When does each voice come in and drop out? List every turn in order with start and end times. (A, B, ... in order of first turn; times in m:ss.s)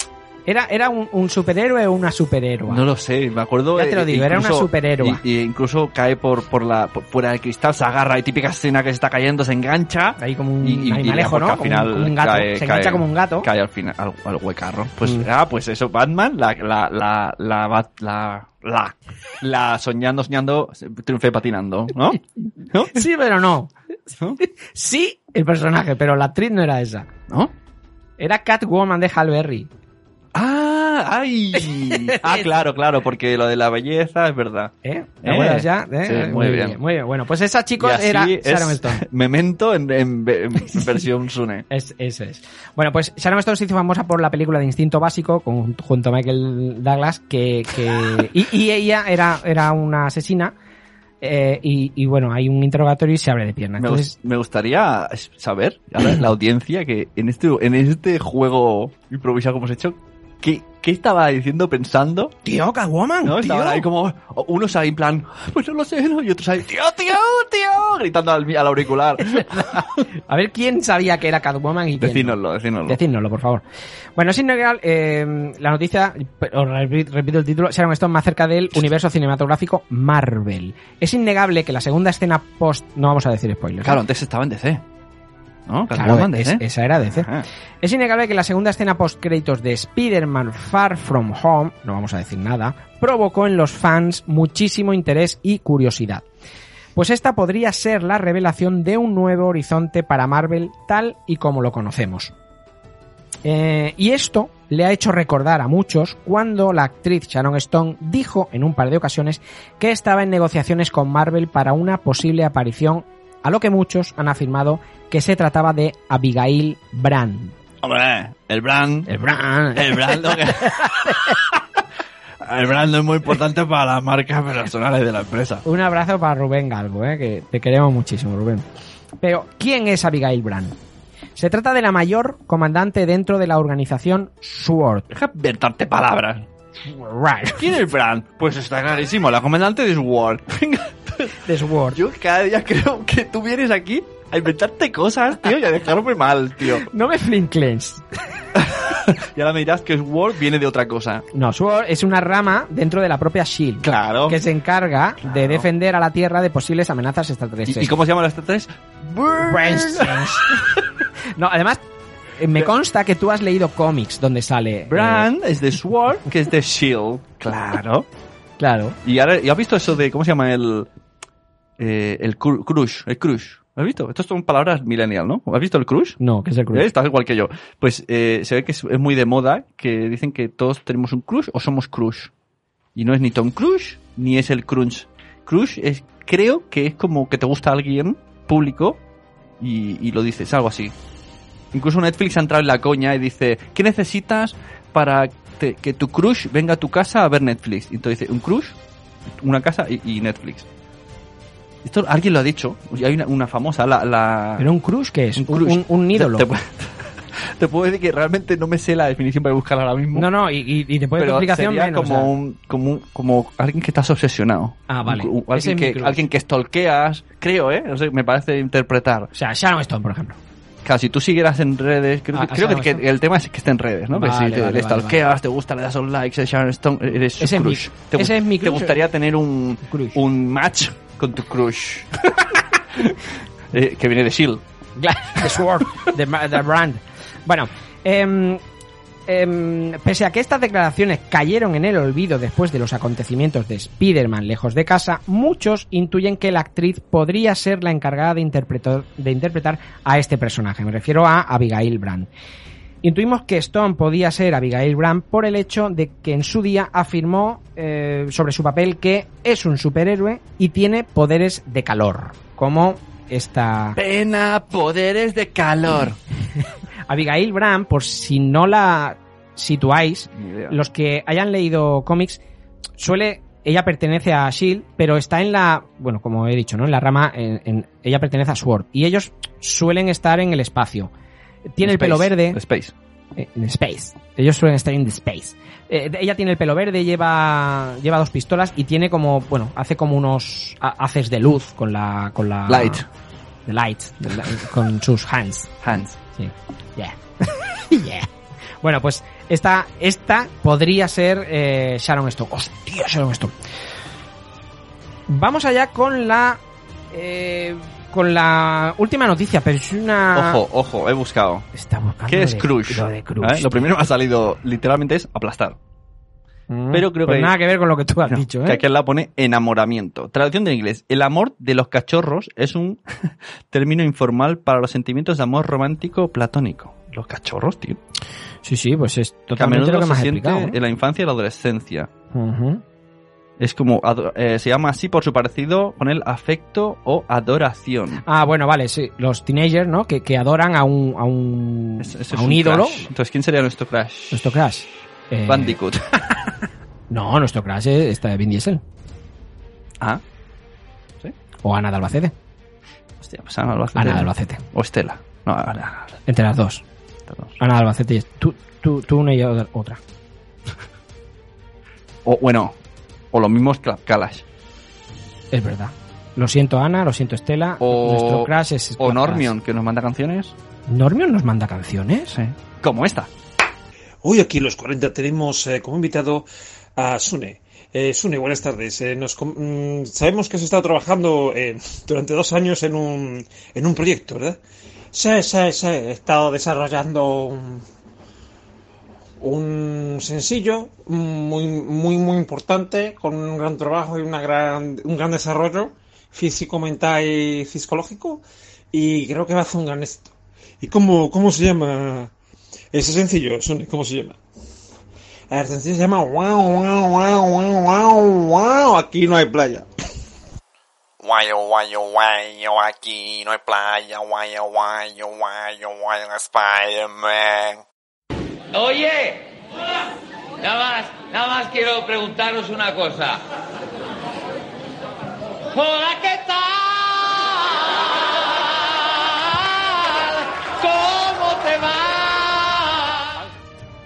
0:00.5-0:02.8 A
0:02.7-0:23.0 B
0:03.7-0:05.2 A
0:10.2-0:13.5 A
0:22.9-0:23.7 A
0:24.4-0:27.1 A
0:28.2-0:29.7 A
0:30.3-0:36.8 B
0:31.6-0:32.5 A
0:34.8-0:39.0 A
0:37.8-0:41.7 B
0:41.7-0:50.5 A
0:51.2-0:54.1 A
0:53.8-1:02.3 B
1:02.4-1:03.8 A
1:03.2-1:09.9 B
1:09.3-1:09.6 A
1:10.3-1:13.6 A
1:12.0-1:13.0 B
1:14.2-1:24.0 A
1:23.8-1:24.8 B
1:25.7-1:27.4 B
1:25.9-1:27.3 A
1:27.8-1:36.2 A
1:37.0-1:42.3 A
1:43.4-1:57.6 A
1:57.8-1:59.1 B
1:59.1-2:01.4 A
1:59.7-2:01.6 B
2:02.4-2:05.6 B
2:05.6-2:08.6 A
2:09.2-2:10.8 A
2:11.4-2:15.1 A
2:15.1-2:16.4 B
2:16.8-2:17.7 A
2:17.6-2:26.9 B
2:21.4-2:22.0 A
2:26.8-2:28.0 A
2:28.6-2:31.2 B
2:31.3-2:37.9 A
2:33.8-2:34.4 B
2:35.2-2:35.6 B
2:37.7-2:40.8 B
2:39.4-2:40.8 A
2:41.4-2:41.8 A
2:42.4-2:45.3 A
2:44.9-2:48.1 B
2:48.6-2:49.0 A
2:49.0-2:50.9 B
2:51.8-2:56.2 B
2:56.2-2:56.9 A
2:56.7-3:02.3 B
3:02.9-3:09.0 B
3:09.6-3:10.9 B
3:11.7-3:18.8 B
3:19.4-3:20.7 B
3:21.8-3:24.7 B
3:24.6-3:26.5 A
3:25.4-3:30.3 B
3:30.1-3:32.3 A
3:31.2-3:39.3 B
3:34.9-3:36.2 A
3:39.3-3:40.4 A
3:40.8-3:53.2 B
3:42.3-3:43.0 A
3:44.1-3:45.2 A
3:47.4-3:49.0 A
3:49.9-3:50.2 A
3:53.7-3:54.6 B
3:55.0-3:58.6 A
3:59.3-4:12.3 A
4:13.0-4:24.0 A
4:24.0-4:26.2 B
4:27.1-4:32.4 A
4:30.3-4:30.8 B
4:33.0-4:41.1 A
4:41.7-4:42.6 A
4:41.8-4:42.9 B
4:43.4-4:53.0 A
4:52.7-4:53.0 B
4:53.7-4:55.8 A
4:55.8-4:56.2 B
4:56.3-4:58.3 A
4:58.8-5:03.5 A
5:05.3-5:06.6 A
5:07.1-5:10.6 A
5:10.3-5:11.7 B
5:11.7-5:13.8 A
5:12.3-5:15.8 B
5:16.7-5:18.8 A
5:16.9-5:17.6 B
5:18.3-5:28.0 B
5:28.6-5:30.8 A
5:29.6-5:32.1 B
5:32.3-5:32.8 A
5:33.6-5:38.2 B
5:38.3-5:43.1 A
5:42.0-5:44.4 B
5:44.3-5:45.8 A
5:45.4-5:46.2 B
5:47.1-5:48.8 A
5:51.6-5:52.3 A
5:53.2-5:56.2 B
5:54.0-5:54.6 A
5:56.3-5:56.8 A
5:57.3-5:57.6 B
5:57.6-6:00.0 A
6:02.2-6:02.8 B
6:03.3-6:04.4 B
6:05.5-6:09.5 A
6:07.8-6:10.6 B
6:10.9-6:12.3 A
6:12.3-6:13.3 B
6:14.2-6:16.4 C
6:17.0-6:24.6 C
6:25.1-6:27.8 C
6:29.4-6:42.3 C
6:42.9-6:44.4 C
6:45.5-6:49.9 C
6:51.2-6:57.8 D
6:58.7-6:59.6 E
7:00.6-7:03.4 E
7:05.7-7:13.4 E